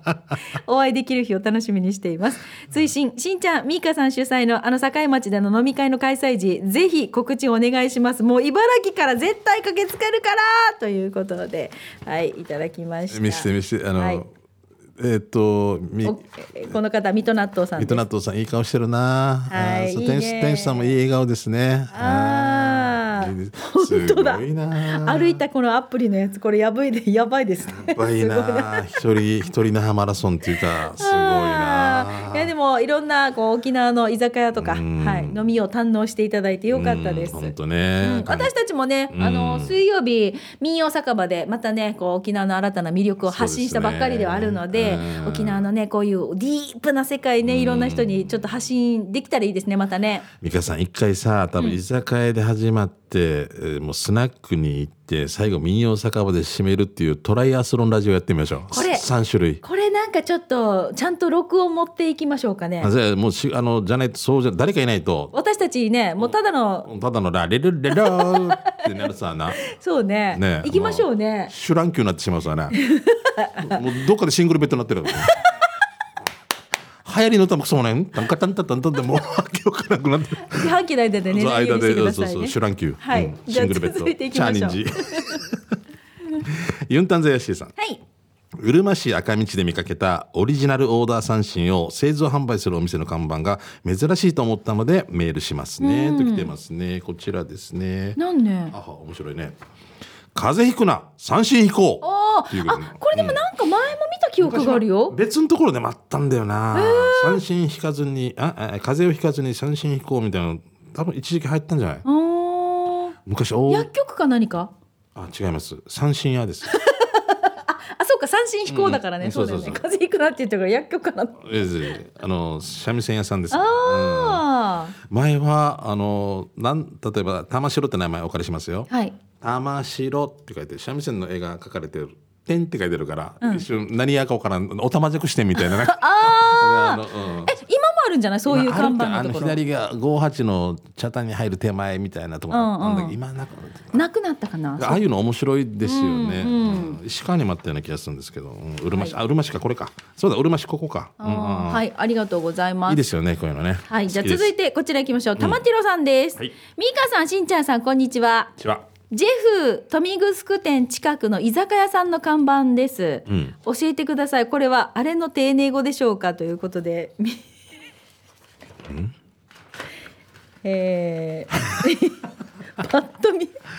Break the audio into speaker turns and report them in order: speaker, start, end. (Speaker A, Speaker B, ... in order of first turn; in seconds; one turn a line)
Speaker A: 0.7-14.2
Speaker B: 13.1-14.3
Speaker B: 15.0-16.2
Speaker A: 16.0-18.0
Speaker B: 17.8-25.4
Speaker A: 19.5-20.9
Speaker A: 21.9-28.8
Speaker B: 27.7-32.5
Speaker A: 30.9-50.3
Speaker B: 34.6-35.4
Speaker B: 36.7-38.5
Speaker B: 39.1-39.8
Speaker B: 43.2-45.6
Speaker B: 47.4-48.4
Speaker B: 50.4-59.6
Speaker A: 58.7-59.0
Speaker A: 59.6-62.9
Speaker B: 62.8-65.3
Speaker A: 65.3-66.9
Speaker B: 66.8-69.6
Speaker A: 68.0-68.8
Speaker A: 69.7-71.5
Speaker B: 70.3-72.8
Speaker A: 72.7-73.8
Speaker B: 73.6-75.3
Speaker B: 77.0-80.8
Speaker A: 80.5-85.4
Speaker B: 81.3-85.6
Speaker B: 86.4-87.7
Speaker B: 88.6-98.2
Speaker A: 95.8-96.5
Speaker A: 98.2-98.7
Speaker B: 98.7-99.6
Speaker B: 100.3-103.4
Speaker A: 102.0-105.2
Speaker B: 104.4-112.0
Speaker A: 106.7-107.4
Speaker A: 112.0-113.2
Speaker B: 113.3-113.9
Speaker A: 113.7-114.7
Speaker B: 115.2-116.7
Speaker A: 116.7-121.4
Speaker B: 118.7-119.8
Speaker B: 121.4-124.4
Speaker A: 123.5-125.0
Speaker B: 125.0-128.9
Speaker A: 128.9-129.2
Speaker B: 129.4-137.5
Speaker A: 135.6-139.6
Speaker B: 138.5-144.0
Speaker A: 142.5-143.2
Speaker A: 143.9-145.0
Speaker B: 144.8-151.8
Speaker A: 145.8-147.0
Speaker A: 151.2-153.0
Speaker B: 152.9-154.5
Speaker A: 153.9-158.6
Speaker A: 159.1-167.4
Speaker B: 163.3-163.6
Speaker B: 168.9-169.1
Speaker A: 170.6-173.6